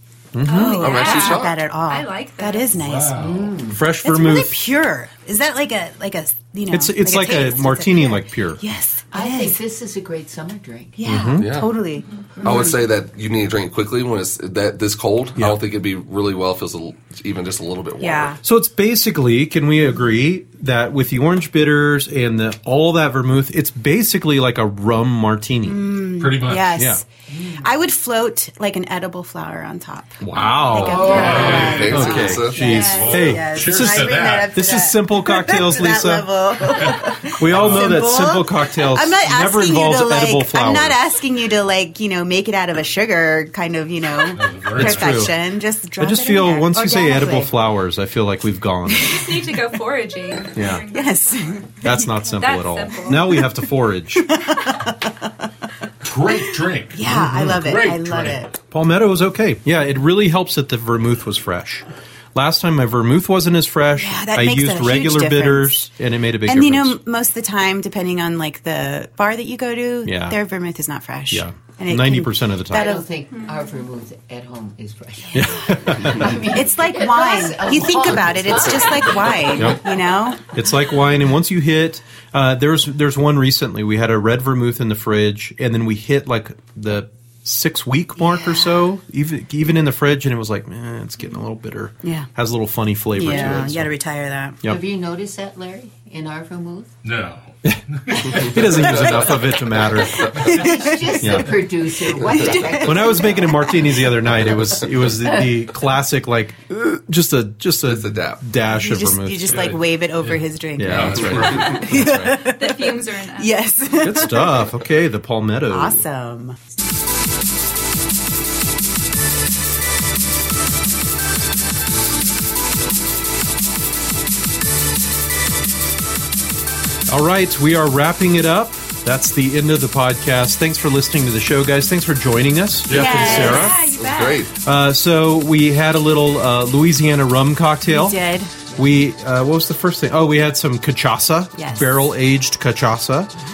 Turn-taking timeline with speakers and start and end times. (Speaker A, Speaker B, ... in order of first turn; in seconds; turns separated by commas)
Speaker A: 0.3-0.9, Speaker B: 0.5-2.8, Speaker C: 0.5-3.2, Speaker D: 0.8-1.6, Speaker E: 2.8-3.6, Speaker F: 3.2-3.8, Speaker A: 3.7-4.6, Speaker C: 4.0-9.6, Speaker A: 6.7-8.6, Speaker F: 9.1-11.0, Speaker C: 11.0-12.8, Speaker A: 11.0-11.5, Speaker D: 11.4-11.7, Speaker F: 12.4-12.7, Speaker D: 12.4-18.4, Speaker C: 18.0-18.4, Speaker A: 18.4-25.9, Speaker C: 25.6-27.1, Speaker E: 26.1-26.8, Speaker A: 26.8-27.0, Speaker C: 27.6-47.5, Speaker A: 30.2-36.3, Speaker E: 30.4-34.5, Speaker F: 30.8-32.0, Speaker B: 31.1-31.6, Speaker D: 31.2-32.9, Speaker A: 37.3-41.0, Speaker E: 37.5-38.0, Speaker E: 44.2-45.2, Speaker A: 44.7-45.4, Speaker A: 46.0-49.2, Speaker C: 48.9-49.4, Speaker B: 49.1-51.6, Speaker A: 50.5-50.8, Speaker C: 50.9-52.4, Speaker A: 51.8-54.3, Speaker B: 52.4-53.2, Speaker C: 53.1-55.3, Speaker E: 56.0-58.5, Speaker C: 56.9-58.5, Speaker A: 57.1-57.6, Speaker A: 58.7-67.0, Speaker C: 64.0-65.9, Speaker C: 66.4-73.1, Speaker A: 70.0-70.4, Speaker A: 71.3-73.0, Speaker F: 72.7-79.8, Speaker B: 73.3-73.6, Speaker A: 75.3-76.4, Speaker C: 76.1-80.4, Speaker A: 79.5-79.8, Speaker A: 80.5-93.9, Speaker C: 92.0-92.3, Speaker C: 93.1-94.6, Speaker F: 93.3-93.7, Speaker F: 94.6-96.9, Speaker E: 97.0-99.1, Speaker A: 97.7-100.6, Speaker D: 98.5-100.5, Speaker C: 100.3-101.5, Speaker E: 100.4-100.7, Speaker F: 100.7-103.7, Speaker A: 101.2-101.6, Speaker C: 102.2-104.0, Speaker A: 102.8-109.7, Speaker D: 107.8-108.4, Speaker C: 108.7-114.7, Speaker E: 109.5-111.9, Speaker A: 110.8-112.5, Speaker B: 112.4-113.5, Speaker A: 114.0-116.0, Speaker C: 115.7-116.6, Speaker A: 127.1-133.8, Speaker E: 132.9-133.6, Speaker C: 132.9-133.7, Speaker B: 133.3-134.4, Speaker D: 133.9-134.5, Speaker A: 134.6-138.2, Speaker C: 137.9-138.5, Speaker A: 138.7-143.3, Speaker C: 141.6-142.1